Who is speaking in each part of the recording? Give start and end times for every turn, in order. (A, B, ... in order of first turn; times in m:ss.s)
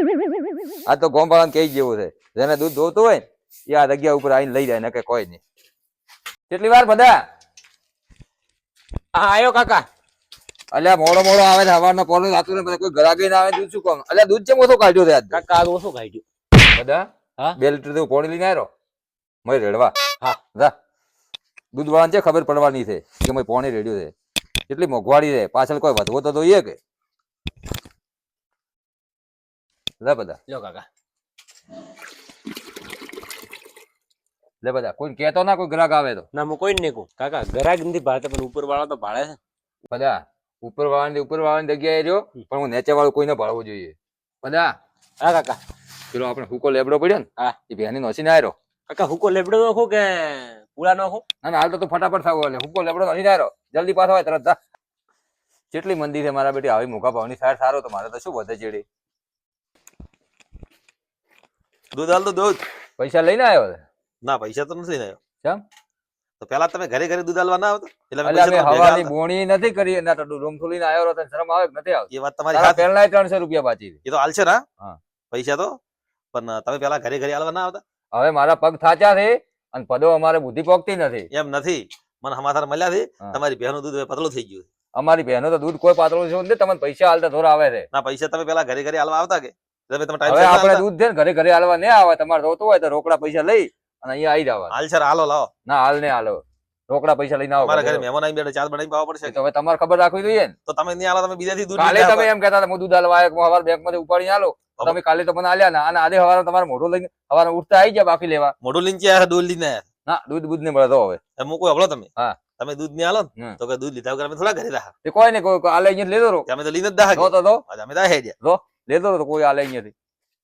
0:00.8-0:05.4 A
0:06.5-0:07.1 A
0:09.1-0:09.8 B
0:10.7-0:15.4 A
0:15.3-0:16.2 B
0:16.7-0:18.7 A
0:19.4-0:19.9 A
0:21.7-0:24.1 A
0:24.7-0:26.8 A
0:30.0-0:30.4 A
0:30.5-0:30.8 B
0:34.6-0:36.2 A
0:36.3-0:39.4 B
0:39.9-0:44.7 A
0:45.2-0:45.6 B
0:46.1-0:48.5 A
0:48.9-0:51.2 B
0:51.4-0:54.6 A
0:55.7-0:58.8 A
1:01.9-1:02.6 C
1:03.0-1:03.8 A
1:04.2-1:05.2 C
1:06.4-1:09.1 C
1:08.2-1:14.0 A
1:12.1-1:12.8 C
1:14.0-1:14.6 C
1:15.3-1:15.7 C
1:16.3-1:17.8 C
1:18.1-1:21.3 A
1:21.3-1:24.7 C
1:25.0-1:27.9 A
1:27.9-1:30.8 C
1:30.3-1:34.7 A
1:34.7-1:35.5 C
1:35.6-1:38.0 A
1:37.6-1:39.4 C
1:39.3-1:40.5 A
1:40.7-1:42.3 C
1:41.8-1:48.5 A
1:48.6-1:49.8 C
1:50.0-1:51.2 A
1:51.4-1:54.9 C
1:55.0-1:56.5 A
1:56.5-1:58.3 C
1:57.1-1:57.6 A
1:58.4-1:59.9 A